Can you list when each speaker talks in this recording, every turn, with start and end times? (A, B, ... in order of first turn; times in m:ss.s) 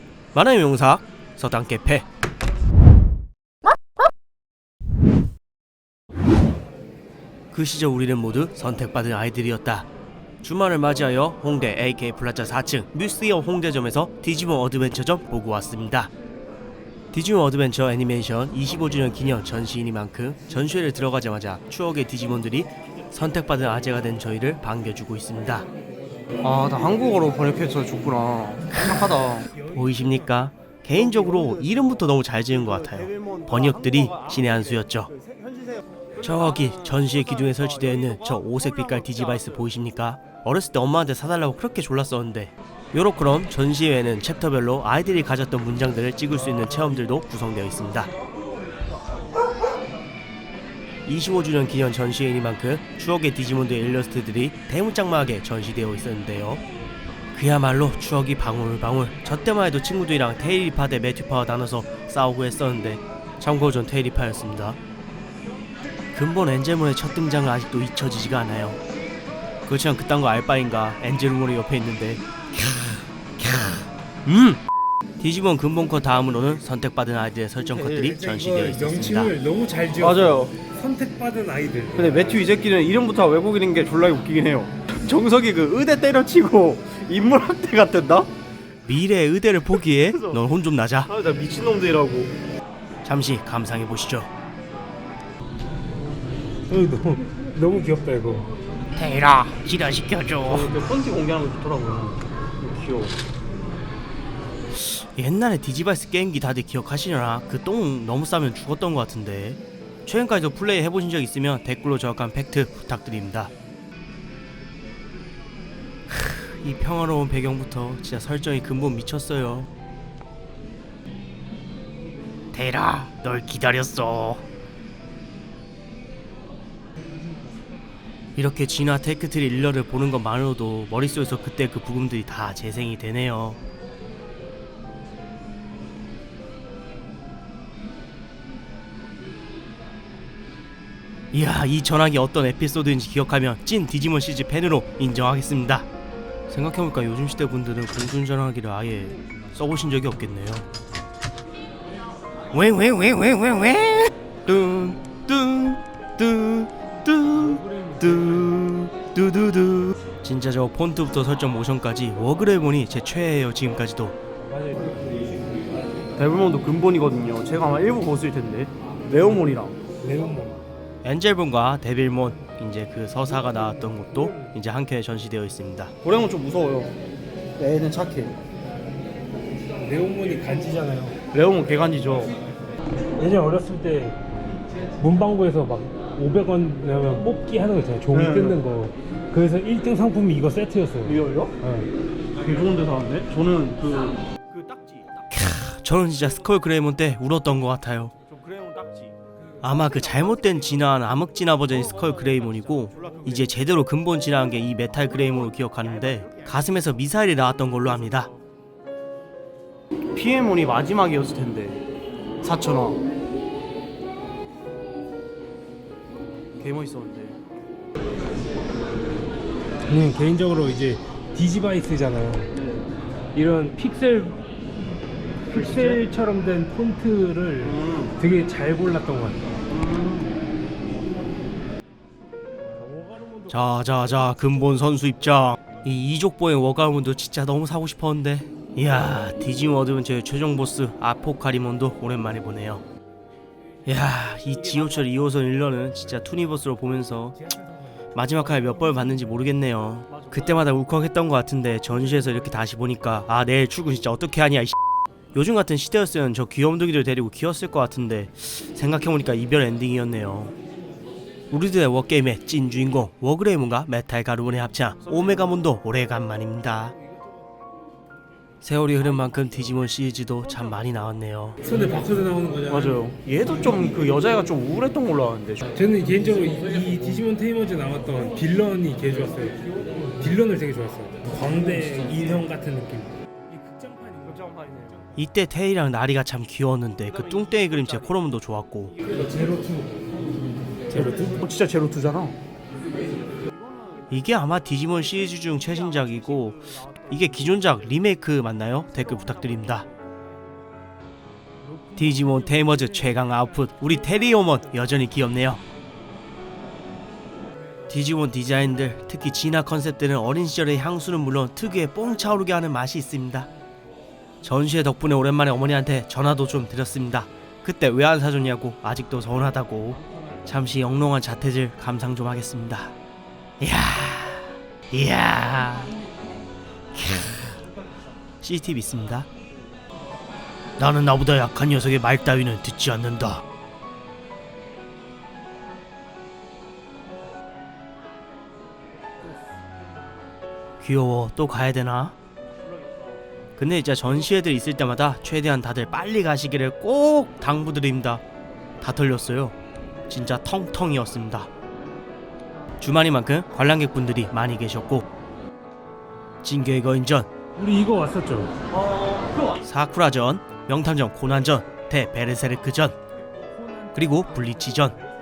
0:00.3-0:02.0 A
0:07.5-0:09.9 A
0:10.4-0:16.1 A
0:17.1-0:25.6 A
0:26.4-0:29.5 B
0:29.6-0:30.1 C
0:29.7-0:35.1 A
0:30.9-0:31.9 B
0:32.5-0:39.6 B
0:36.2-0:48.1 A
0:51.0-0:56.6 A
0:57.3-1:04.8 A
1:06.1-1:08.8 A
1:09.7-1:14.6 A
1:15.2-1:19.3 A
1:17.6-1:18.1 B
1:18.0-1:22.4 C
1:20.0-1:20.5 B
1:22.0-1:28.3 B
1:28.8-1:31.1 A
1:29.7-1:30.4 B
1:31.0-1:32.3 B
1:33.0-1:34.3 A
1:36.7-1:38.5 C
1:38.9-1:40.7 A
1:40.4-1:43.2 B
1:44.7-1:53.5 A
1:56.1-1:59.7 A
2:02.5-2:04.4 A
2:08.4-2:13.6 A
2:21.3-2:25.9 A
2:26.5-2:30.6 A
2:32.5-2:44.2 A
2:37.3-2:38.6 C
2:44.4-2:45.0 C
2:46.2-2:49.8 B
2:50.0-2:50.6 C
2:51.0-2:55.9 A
2:53.7-2:54.5 C
2:56.0-2:57.0 B
2:57.6-2:58.4 B
2:59.8-3:01.2 C
3:01.3-3:02.3 B
3:03.2-3:04.2 C
3:05.0-3:11.9 C
3:08.1-3:08.6 B
3:11.0-3:11.6 B
3:12.4-3:15.2 B
3:15.3-3:18.1 A
3:18.2-3:19.2 B
3:19.6-3:28.3 A
3:19.8-3:20.8 B
3:21.7-3:23.6 B
3:25.1-3:26.6 B
3:30.1-3:31.8 B
3:32.4-3:33.0 B
3:36.6-3:37.4 B
3:39.9-3:42.5 C
3:43.3-3:44.4 C
3:45.5-3:49.4 C
3:45.5-3:46.0 B
3:47.6-3:48.1 B
3:49.7-3:50.3 B
3:52.8-3:53.6 C
3:53.5-4:02.8 A
4:03.8-4:07.4 A
4:04.6-4:05.2 B
4:07.4-4:09.2 C
4:08.1-4:14.8 A
4:10.1-4:10.7 B
4:15.3-4:20.5 A
4:21.5-4:27.0 A
4:25.0-4:25.5 B
4:28.6-4:31.6 A
4:31.6-4:33.0 C
4:32.7-4:35.7 B
4:35.7-4:44.4 C
4:41.4-4:42.4 B
4:44.2-4:45.0 B
4:45.1-4:48.9 A
4:47.0-4:48.2 B
4:49.0-4:49.4 B
4:49.1-4:49.9 C
4:50.9-4:51.4 C
4:50.9-4:52.4 B
4:53.3-4:54.1 B
4:54.1-4:59.8 A
4:55.2-4:57.8 B
4:58.9-4:59.9 B
5:01.8-5:03.8 C
5:02.0-5:05.6 A
5:07.9-5:13.5 A
5:14.4-5:22.9 A
5:23.6-5:26.0 A
5:26.9-5:27.6 A
5:28.4-5:29.3 A
5:30.8-5:33.4 A
5:40.8-5:42.1 A
5:43.6-5:48.2 A
5:48.8-5:49.6 A
5:50.1-5:51.5 A
5:52.8-5:55.0 A
5:56.4-5:57.3 A
5:57.6-5:58.5 C
5:59.6-6:03.0 A
6:03.9-6:05.0 A